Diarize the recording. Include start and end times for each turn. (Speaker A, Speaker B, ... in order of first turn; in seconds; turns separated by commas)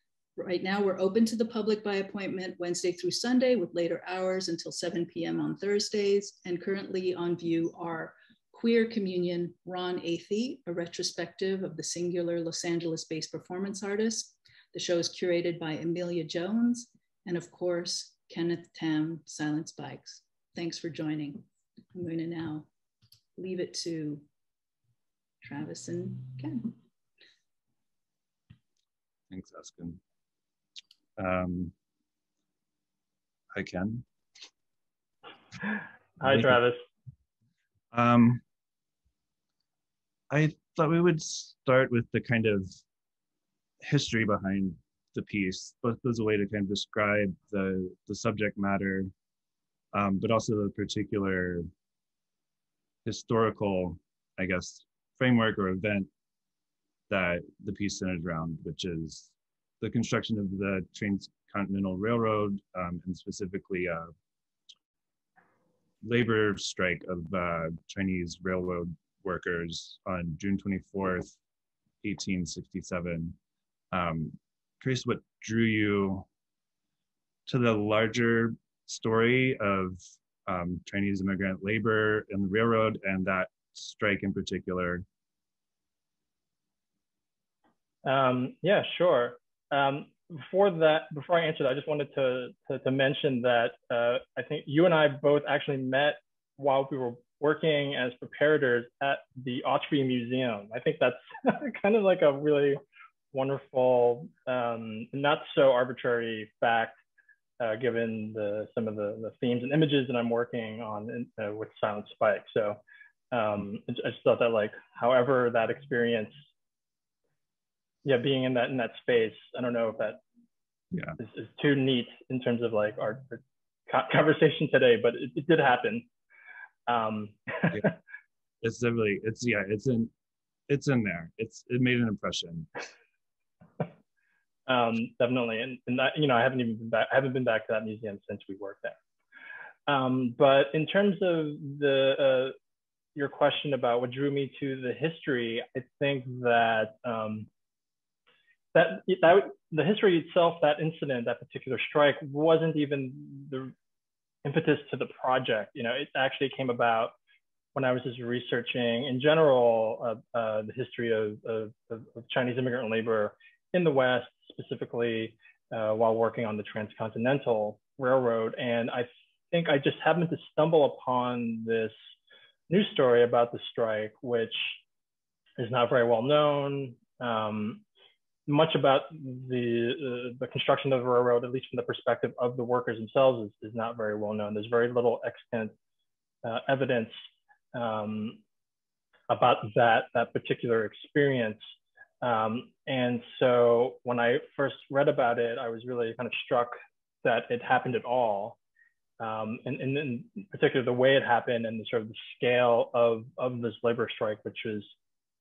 Speaker A: 0.4-22.7, Speaker A: 23.4-24.2, Speaker A: 25.4-26.7, Speaker B: 29.3-30.0, Speaker B: 31.2-31.7, Speaker B: 33.5-34.0, Speaker C: 36.2-36.8, Speaker B: 36.2-36.6, Speaker B: 37.9-38.4, Speaker B: 40.3-42.7, Speaker B: 43.8-49.1, Speaker B: 49.9-51.7, Speaker B: 53.0-56.1, Speaker B: 57.1-64.1, Speaker B: 66.0-71.4, Speaker B: 72.0-73.4, Speaker B: 73.9-76.3, Speaker B: 77.5-85.0, Speaker C: 88.0-102.8, Speaker C: 103.3-107.0, Speaker C: 107.6-112.8, Speaker C: 113.3-116.3, Speaker C: 118.0-120.2, Speaker B: 120.9-121.2, Speaker C: 121.2-126.1, Speaker C: 126.9-128.0, Speaker B: 128.6-130.1, Speaker B: 130.7-132.7, Speaker C: 134.7-139.0, Speaker C: 139.9-142.6, Speaker C: 143.2-147.5, Speaker C: 148.7-153.7, Speaker C: 154.4-157.2, Speaker C: 157.8-171.9, Speaker C: 172.7-174.8, Speaker C: 175.6-177.8, Speaker C: 178.5-185.7, Speaker C: 186.4-187.2, Speaker C: 187.7-188.4, Speaker C: 189.3-191.6, Speaker C: 192.2-198.6, Speaker C: 199.2-204.9